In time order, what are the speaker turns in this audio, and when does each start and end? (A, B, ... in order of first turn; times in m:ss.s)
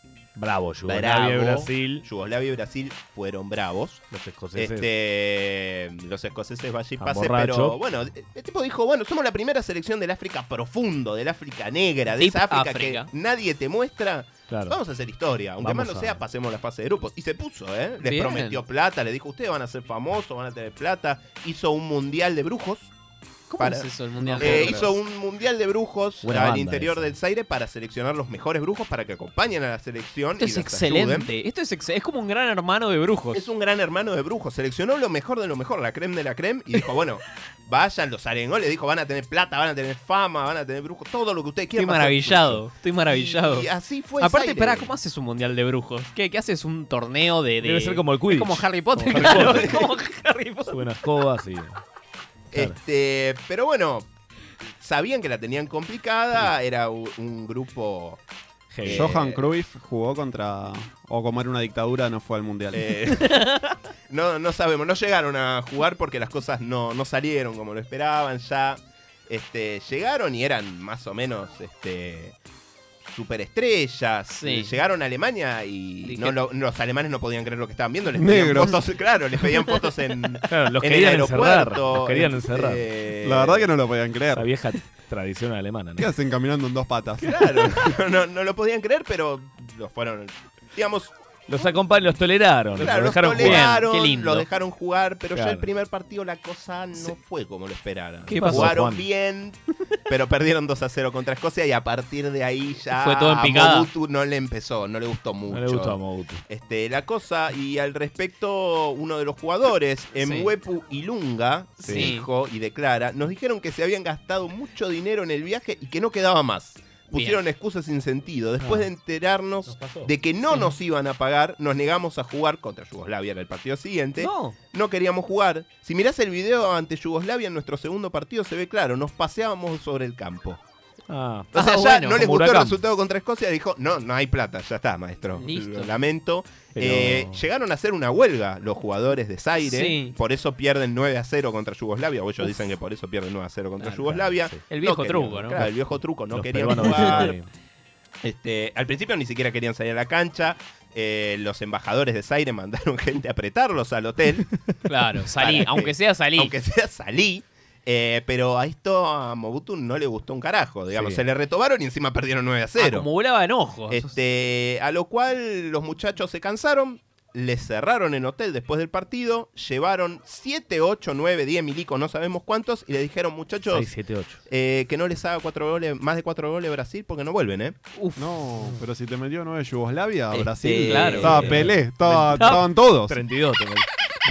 0:00.4-0:02.0 A
0:00.9-0:22.9 B
0:04.1-0:04.9 A
0:07.0-0:07.8 A
0:12.2-0:13.1 C
0:14.5-0:14.8 A
0:15.6-0:16.2 A
0:18.0-0:18.6 C
0:23.5-0:24.9 C
0:23.6-0:31.3 B
0:24.3-0:24.8 A
0:26.2-0:27.2 A
0:30.4-0:33.4 C
0:33.3-0:44.9 B
0:41.8-0:43.7 C
0:44.2-0:50.8 C
0:47.6-0:49.9 A
0:50.7-0:51.8 A
0:52.5-0:54.1 B
0:54.8-0:58.2 B
0:58.7-0:59.2 A
0:58.8-0:59.4 B
0:58.9-1:03.0 D
1:02.7-1:03.3 B
1:03.3-1:03.7 C
1:04.1-1:12.4 B
1:13.0-1:23.7 B
1:14.3-1:14.8 C
1:16.0-1:16.4 C
1:18.2-1:18.8 D
1:20.5-1:22.8 A
1:23.2-1:24.5 D
1:24.3-1:26.1 A
1:26.0-1:27.6 D
1:27.2-1:31.1 B
1:31.5-1:33.8 A
1:32.8-2:10.6 B
1:33.4-1:34.5 C
1:35.3-1:35.7 A
1:38.3-1:38.8 C
1:38.3-1:39.0 A
1:42.9-1:43.9 C
1:45.5-1:46.4 A
1:50.2-1:50.5 C
1:51.8-1:52.3 C
1:51.8-1:52.2 A
1:57.1-1:57.4 C
1:58.6-1:58.9 A
1:59.7-2:00.1 A
2:04.2-2:04.6 C
2:11.1-2:11.6 A
2:11.5-2:12.3 C
2:11.5-2:27.4 B
2:12.1-2:12.8 A
2:15.4-2:15.9 C
2:16.8-2:17.4 A
2:19.6-2:20.2 C
2:24.1-2:24.6 A
2:24.7-2:25.6 C
2:26.3-2:27.5 A
2:26.9-2:27.3 C
2:28.2-2:34.5 B
2:34.9-2:36.5 C
2:35.4-2:43.1 B
2:40.9-2:41.2 A
2:42.8-2:44.1 C
2:43.9-2:53.9 B
2:53.7-2:54.4 A
2:54.5-2:57.8 B
2:58.0-2:58.3 C
2:58.2-3:03.2 D
3:00.3-3:01.7 C
3:00.8-3:03.9 A